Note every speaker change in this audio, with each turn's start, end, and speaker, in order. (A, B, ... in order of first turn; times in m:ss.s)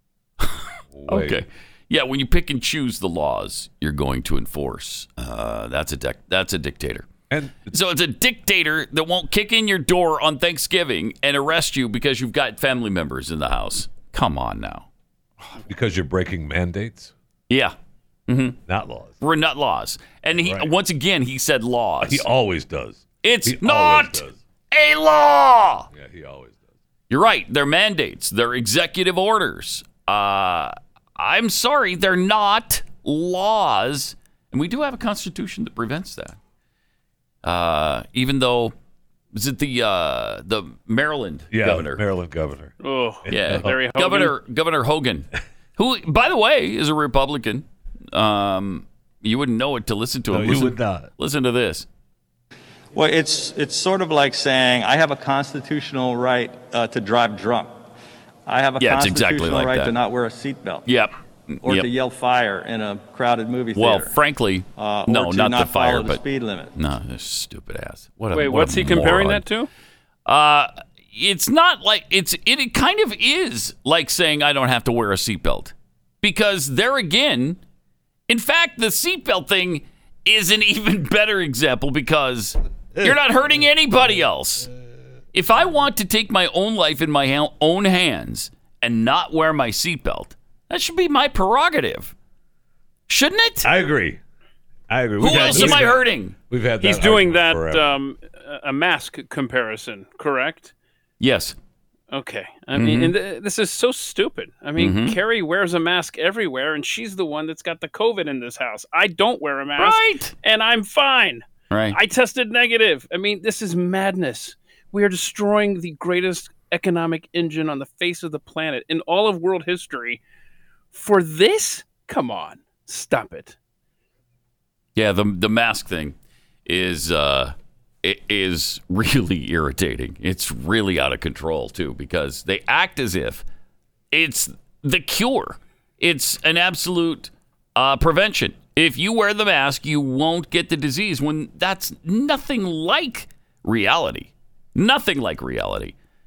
0:00.4-0:07.1 A
0:00.9-0:01.4 B
0:07.3-0:07.7 B
0:07.7-0:14.9 A
0:15.7-0:17.1 B
0:17.5-0:17.8 A
0:18.3-0:18.6 A
0:18.7-0:19.2 B
0:19.2-0:22.3 A
0:20.4-0:20.7 B
0:22.0-0:24.4 B
0:23.2-0:25.9 A
0:25.9-0:26.6 B
0:27.1-0:36.4 A
0:37.4-0:38.8 A
0:39.3-0:42.0 A
0:41.5-0:43.8 B
0:42.8-0:44.3 C
0:43.3-0:51.9 A
0:50.3-0:51.1 B
0:52.9-0:57.9 D
0:58.5-1:00.9 D
0:58.8-0:59.9 A
1:00.9-1:01.9 A
1:01.6-1:04.2 D
1:03.8-1:06.2 A
1:04.8-1:06.7 D
1:06.8-1:09.4 A
1:08.3-1:09.7 C
1:10.3-1:17.6 A
1:18.3-1:24.7 A
1:25.3-1:32.1 A
1:33.1-1:33.7 A
1:33.6-1:34.2 B
1:34.9-1:38.0 B
1:35.2-1:36.4 A
1:35.4-1:35.8 C
1:36.8-1:40.7 C
1:41.2-1:41.6 A
1:42.1-2:00.2 C
1:42.7-1:43.1 A
1:44.8-1:45.2 A
1:49.8-1:50.3 A
1:51.7-1:52.0 A
2:00.9-2:03.6 C
2:05.0-2:13.4 A
2:14.1-2:26.0 A